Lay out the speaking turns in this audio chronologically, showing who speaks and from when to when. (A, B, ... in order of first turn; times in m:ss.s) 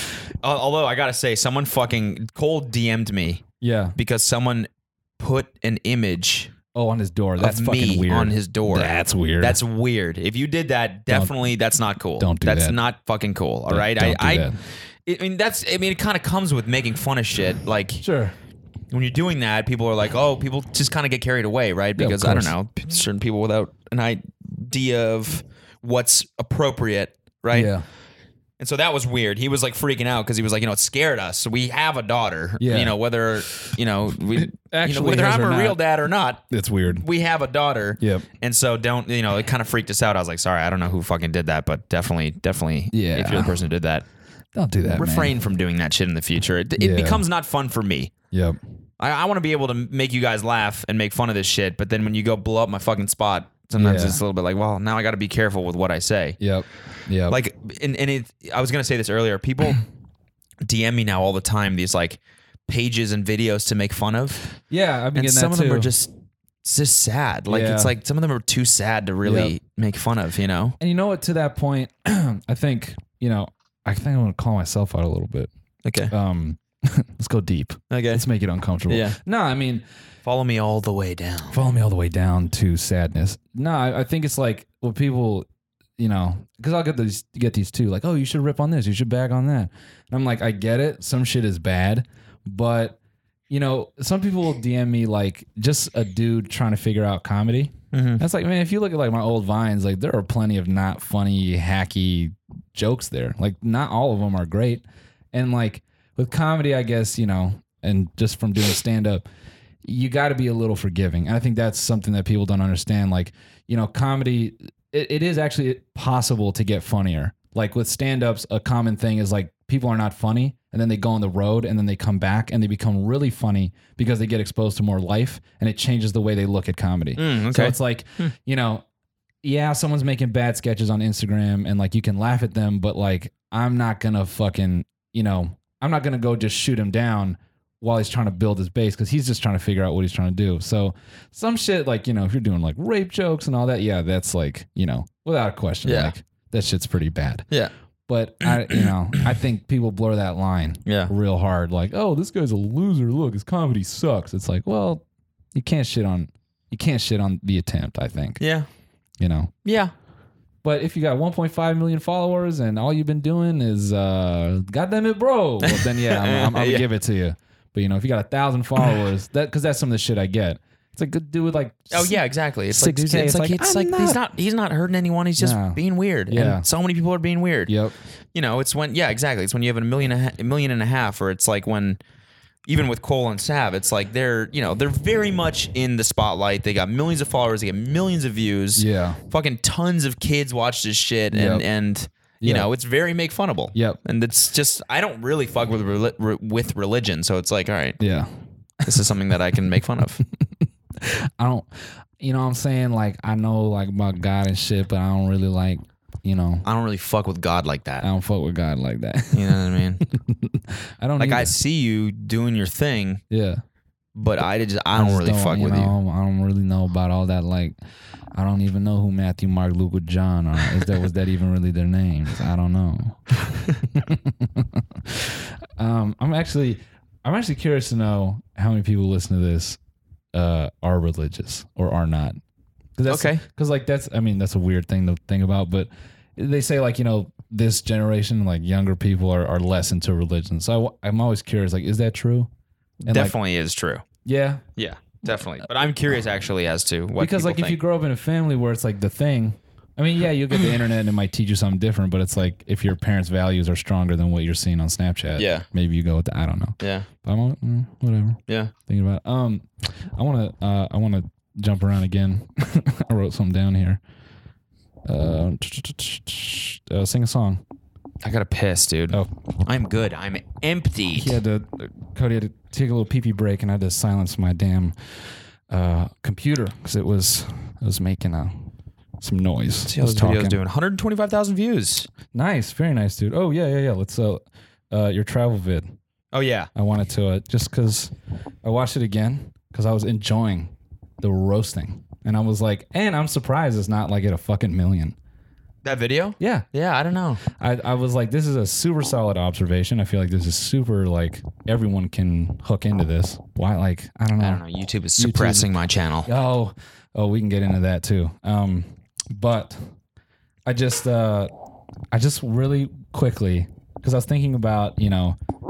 0:00.4-0:03.4 A
0:03.6-0:04.0 B
0:04.0-0:06.5 A
0:06.7-0:09.6 B
0:07.4-0:14.5 A
0:11.1-0:11.4 B
0:12.2-0:12.8 B
0:13.7-0:14.6 B
0:15.0-0:18.0 A
0:18.0-0:18.3 B
0:18.9-0:27.7 A
0:22.0-0:22.5 B
0:27.5-0:27.8 B
0:28.6-0:44.0 A
0:32.6-0:33.0 B
0:33.5-0:33.8 B
0:34.3-0:35.8 B
0:36.5-0:37.0 B
0:38.0-0:38.3 B
0:42.9-0:43.6 B
0:44.5-0:45.4 B
0:44.9-0:48.1 A
0:46.8-0:47.2 B
0:48.3-0:48.6 B
0:49.0-0:56.4 A
0:53.8-0:54.2 B
0:56.4-0:57.4 B
0:57.3-0:59.8 A
1:00.6-1:04.4 A
1:04.7-1:05.9 B
1:05.1-1:06.1 A
1:06.6-1:10.8 A
1:07.5-1:07.9 B
1:09.2-1:09.5 B
1:10.8-1:15.5 B
1:15.8-1:16.1 A
1:16.1-1:19.8 B
1:17.9-1:18.2 A
1:18.9-1:19.2 A
1:20.2-1:21.7 A
1:21.5-1:25.5 B
1:26.0-1:33.0 B
1:33.5-1:49.2 B
1:37.9-1:38.2 A
1:49.8-2:08.8 B
2:07.2-2:08.3 A
2:09.4-2:27.4 B
2:25.8-2:26.1 A
2:28.1-2:38.4 B
2:28.4-2:28.9 A
2:30.8-2:31.1 A
2:38.4-2:38.7 A
2:39.2-2:39.5 B
2:39.6-2:39.9 A
2:40.6-2:52.2 B
2:45.6-2:46.8 A
2:51.9-2:57.7 A
2:52.7-2:54.2 B
2:55.4-2:56.6 B
2:57.7-2:57.9 B
2:58.3-3:02.0 A
3:02.6-3:18.0 A
3:08.8-3:09.2 B
3:11.3-3:11.6 B
3:12.4-3:12.7 B
3:13.7-3:14.0 B
3:18.0-3:18.3 B
3:18.8-3:20.2 A
3:20.2-3:21.7 B
3:22.2-3:26.6 B
3:26.6-3:28.1 A
3:28.0-3:31.5 B
3:29.3-3:30.0 A
3:31.2-3:33.2 A
3:33.3-3:33.6 B
3:34.1-3:35.9 A
3:34.9-3:37.8 B
3:38.3-3:49.8 B
3:50.3-3:52.4 B
3:53.0-4:02.5 B
3:53.1-3:53.4 A
4:03.0-4:04.0 A
4:03.1-4:03.3 B
4:04.2-4:04.6 B
4:04.8-4:07.8 A
4:07.2-4:24.0 B
4:15.4-4:15.6 A
4:16.8-4:17.1 A
4:25.1-4:27.6 B
4:28.2-4:31.4 A
4:31.1-4:35.0 B
4:35.7-4:38.7 B
4:39.2-4:40.6 B
4:39.8-4:42.1 A
4:42.3-4:45.9 B
4:46.3-4:46.7 A
4:46.7-4:48.1 B
4:48.6-4:55.2 B
4:55.8-4:57.4 A
4:56.4-4:56.7 B
4:57.5-5:04.6 B
5:04.4-5:06.3 A
5:05.2-5:09.9 B
5:10.6-5:11.5 B
5:12.1-5:15.4 B